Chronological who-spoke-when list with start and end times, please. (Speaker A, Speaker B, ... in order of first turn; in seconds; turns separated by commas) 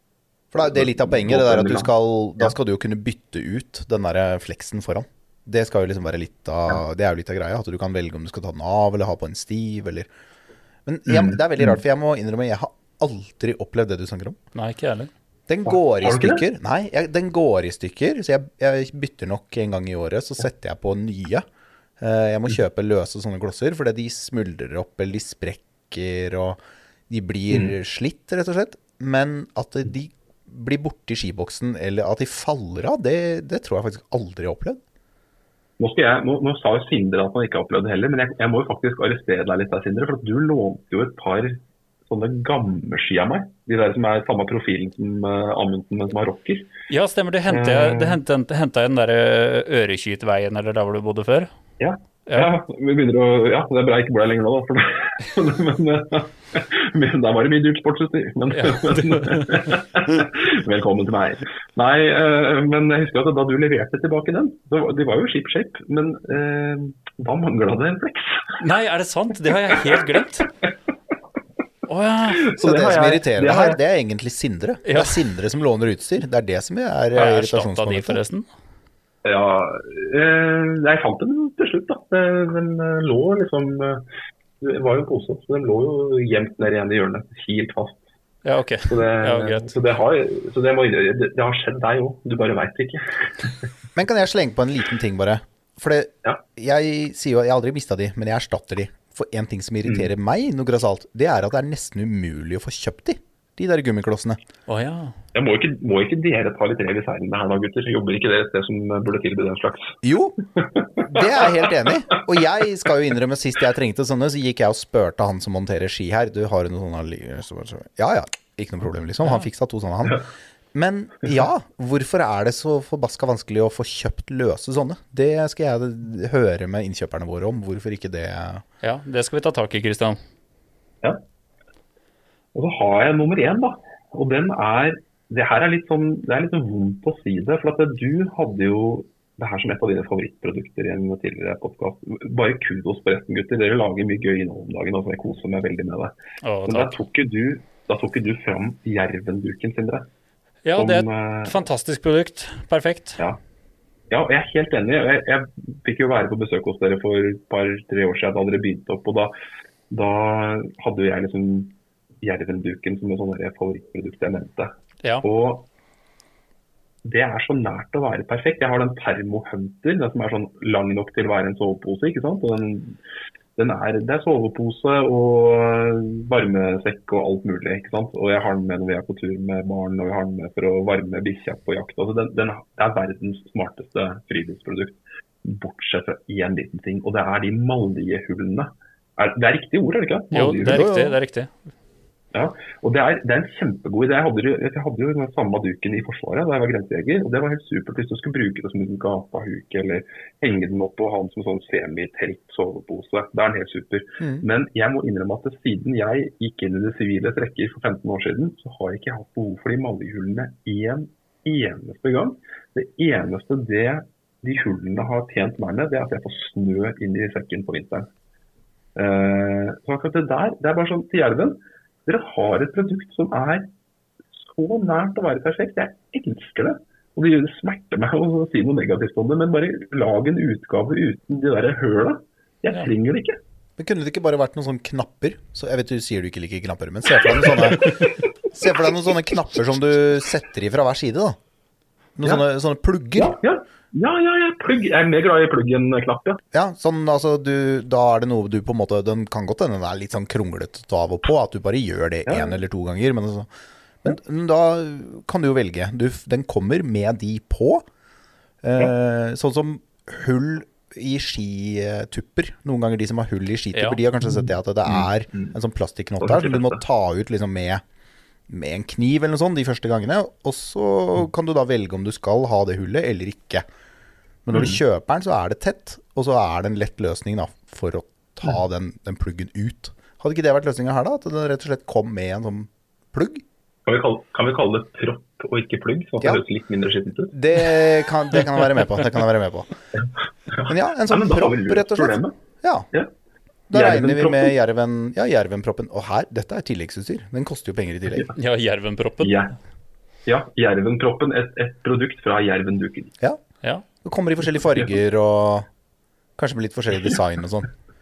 Speaker A: 0.5-10.1, Speaker B: 0.6-2.5, Speaker A: 10.9-14.4, Speaker B: 11.1-11.8, Speaker C: 14.6-15.1, Speaker A: 15.5-21.4, Speaker B: 15.7-16.4, Speaker A: 22.0-34.8, Speaker B: 35.8-46.7, Speaker C: 46.9-51.5, Speaker B: 47.5-48.2, Speaker B: 51.8-68.6, Speaker C: 58.5-59.7, Speaker C: 68.6-70.5, Speaker C: 71.9-72.5, Speaker B: 72.3-73.8, Speaker A: 72.6-78.2, Speaker C: 74.8-75.2, Speaker C: 77.2-78.5, Speaker B: 79.2-84.0, Speaker B: 84.6-88.0, Speaker C: 88.5-89.8, Speaker B: 88.9-93.7, Speaker A: 94.0-104.4, Speaker C: 104.7-105.2, Speaker B: 105.3-110.0, Speaker A: 110.0-110.4, Speaker B: 110.6-112.2, Speaker A: 111.0-128.6, Speaker C: 128.8-130.2, Speaker B: 132.6-146.2, Speaker C: 146.4-147.0, Speaker B: 146.7-150.1, Speaker C: 150.7-153.2, Speaker B: 150.8-151.6, Speaker B: 154.1-159.3, Speaker B: 159.9-165.7, Speaker B: 167.0-173.0, Speaker B: 173.6-190.9, Speaker C: 190.3-191.6, Speaker A: 190.7-191.2, Speaker B: 192.3-218.1, Speaker B: 218.9-223.7, Speaker B: 224.4-233.4, Speaker A: 233.8-241.4, Speaker B: 237.4-238.2, Speaker A: 242.2-243.4, Speaker B: 243.2-246.4, Speaker A: 246.5-253.5, Speaker B: 252.3-252.6, Speaker A: 254.0-257.8, Speaker A: 258.6-267.8, Speaker C: 263.7-264.0, Speaker B: 264.9-265.6, Speaker B: 266.2-266.8, Speaker A: 268.5-273.6, Speaker A: 274.4-283.4, Speaker B: 274.5-274.8, Speaker B: 283.9-287.7, Speaker A: 287.3-289.7, Speaker B: 290.0-292.3, Speaker A: 290.7-292.9, Speaker A: 293.7-298.3, Speaker B: 293.7-294.6, Speaker C: 298.4-299.5, Speaker B: 299.2-299.5, Speaker B: 300.3-303.2, Speaker A: 304.0-305.7, Speaker A: 306.4-307.7